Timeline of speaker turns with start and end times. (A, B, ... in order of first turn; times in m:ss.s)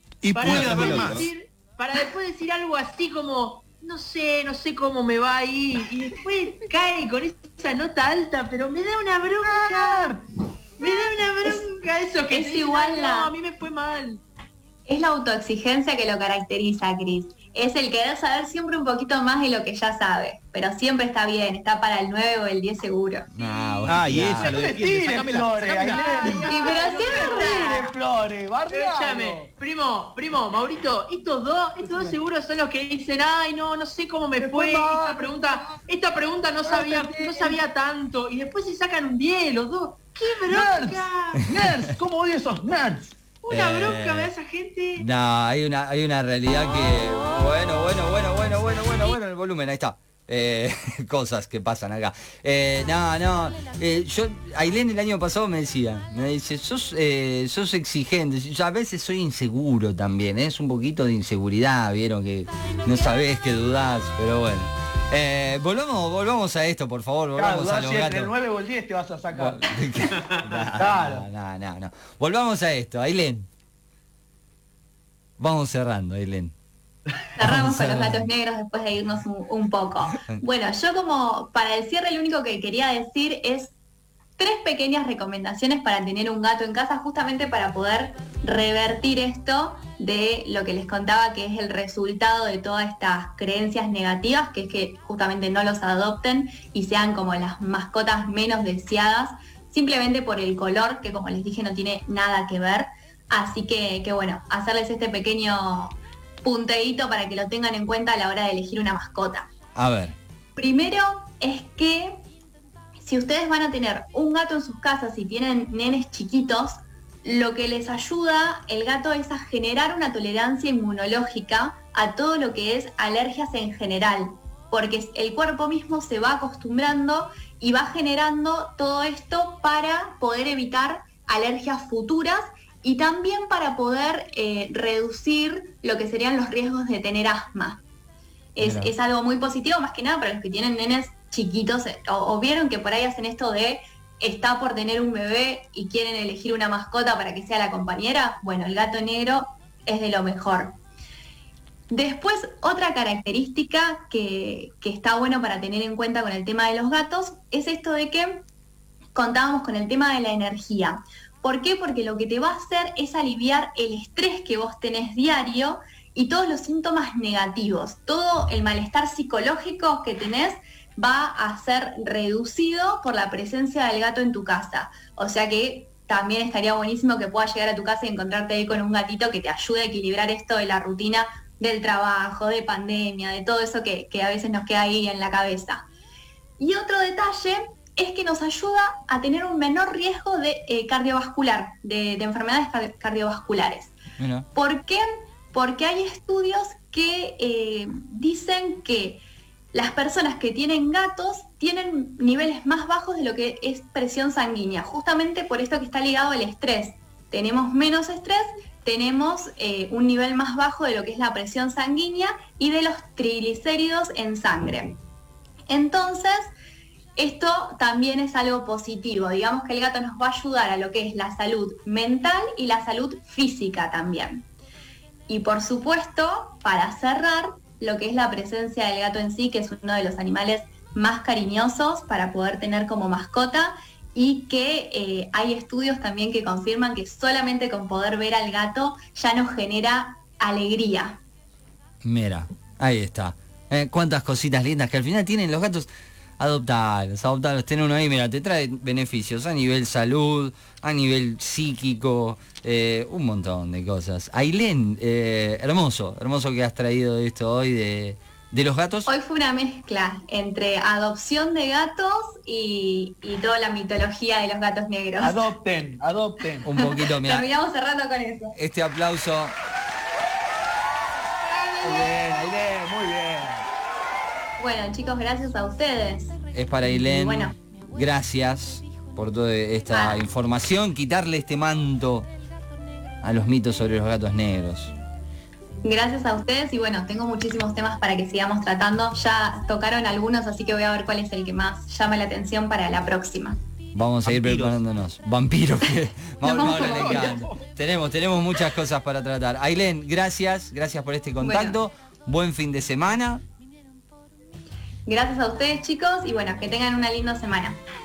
0:00.3-0:01.3 A
0:00.3-0:10.2 B
0:00.4-0:01.2 C
0:09.4-0:10.2 C
0:10.8-0:14.2 B
0:12.3-0:13.3 D
0:14.8-0:23.3 D
0:23.3-0:24.5 E
0:23.4-0:24.5 B
0:23.9-0:26.0 A
0:24.4-0:29.5 C
0:25.6-0:27.9 B
0:26.4-0:27.9 D
0:28.7-0:41.5 B
0:34.4-0:35.5 C
0:36.6-0:37.6 C
0:40.5-0:43.2 C
0:43.4-0:45.0 B
0:43.5-0:44.3 E
0:45.0-1:08.3 E
1:07.3-1:09.8 C
1:09.3-1:13.5 E
1:10.2-1:10.5 B
1:10.8-1:11.2 C
1:15.4-1:16.5 E
1:17.4-1:23.7 D
1:17.4-1:18.3 E
1:24.4-1:49.5 D
1:49.7-1:50.2 E
1:50.6-1:52.2 D
1:53.0-2:17.8 D
2:18.6-2:30.8 D
2:18.6-2:18.9 E
2:31.9-2:38.4 D
2:39.1-3:05.8 D
3:06.6-3:13.9 D
3:14.2-3:14.5 E
3:14.5-3:19.2 D
3:19.7-3:35.0 D
3:35.7-3:36.5 D
3:37.2-3:44.4 D
3:45.3-4:01.2 D
4:02.0-4:05.9 E
4:06.4-4:19.1 E
4:19.1-4:25.5 D
4:25.2-4:26.6 C
4:26.6-4:27.5 E
4:27.2-4:28.6 D
4:28.6-4:29.6 E
4:31.8-4:33.6 C
4:34.6-4:37.5 D
4:36.5-4:42.3 E
4:39.9-4:40.2 D
4:43.2-4:44.9 E
4:45.8-4:53.6 D
4:53.9-5:03.4 E
4:54.2-4:54.8 A
4:56.4-4:57.4 D
4:56.6-4:57.6 C
5:01.4-5:01.8 D
5:05.1-5:07.8 D